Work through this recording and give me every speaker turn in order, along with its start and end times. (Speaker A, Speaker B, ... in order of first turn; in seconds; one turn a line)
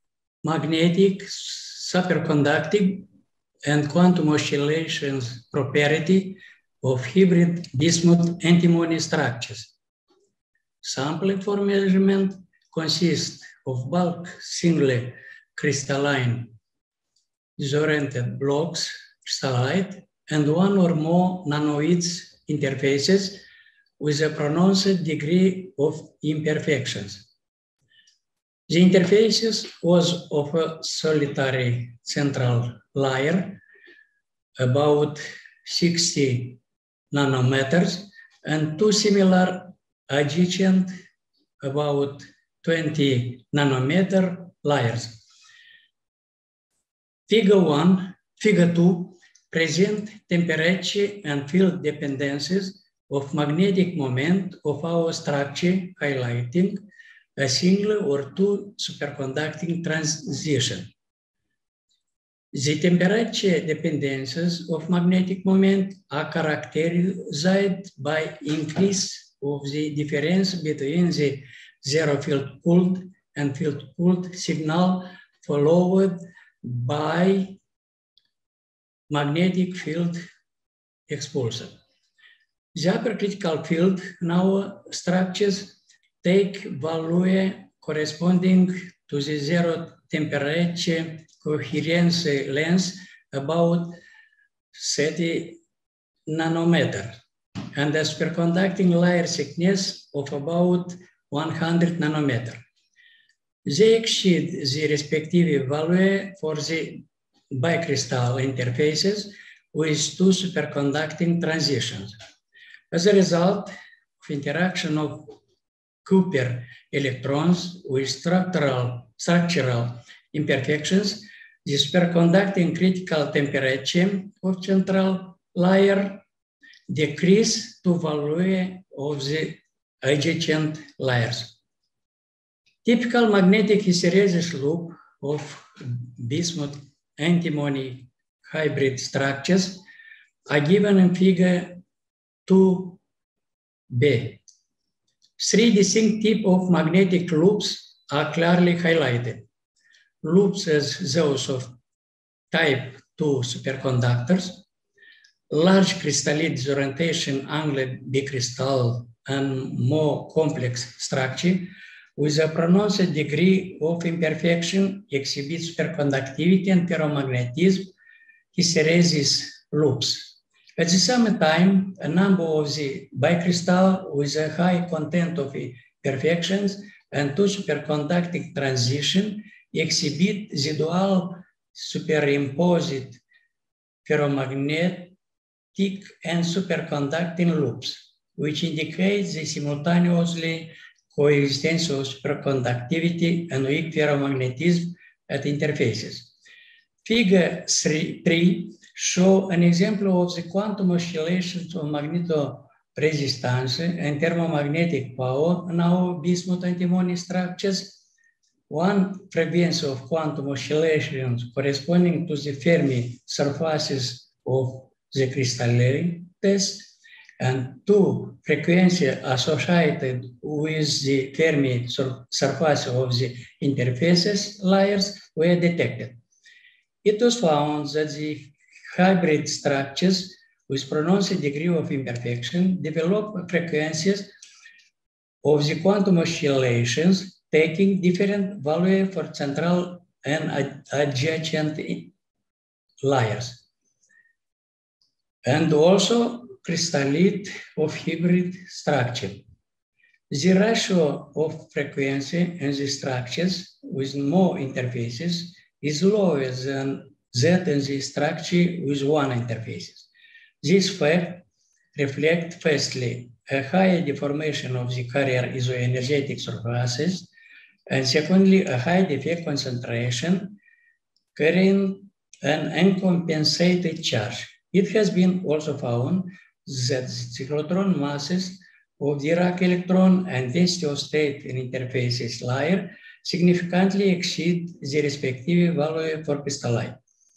Speaker A: 0.4-3.1
Speaker A: 3.6-9.7
Speaker A: 10.8-16.5
Speaker A: 17.6-23.4
Speaker A: 24.0-27.2
Speaker A: 28.7-33.6
Speaker A: 34.6-36.6
Speaker A: 37.1-40.9
Speaker A: 41.6-45.2
Speaker A: 47.3-56.8
Speaker A: 57.4-60.9
Speaker A: 62.5-77.6
Speaker A: 79.1-80.2
Speaker A: 81.1-81.8
Speaker A: 82.7-94.0
Speaker A: 94.7-95.6
Speaker A: 96.3-97.2
Speaker A: 97.7-102.6
Speaker A: 103.6-112.1
Speaker A: 112.9-115.3
Speaker A: 116.0-126.2
Speaker A: 126.9-131.6
Speaker A: 132.8-139.8
Speaker A: 140.4-141.8
Speaker A: 142.4-143.0
Speaker A: 143.9-144.4
Speaker A: 145.4-149.4
Speaker A: 150.2-151.8
Speaker A: 152.5-154.6
Speaker A: 155.5-167.9
Speaker A: 168.5-183.2
Speaker A: 184.0-185.2
Speaker A: 185.7-196.3
Speaker A: 197.0-208.1
Speaker A: 208.7-226.2
Speaker A: 227.0-234.3
Speaker A: 235.4-242.1
Speaker A: 243.0-243.6
Speaker A: 245.4-249.4
Speaker A: 250.3-260.1
Speaker A: 260.6-267.3
Speaker A: 267.9-270.6
Speaker A: 271.3-287.0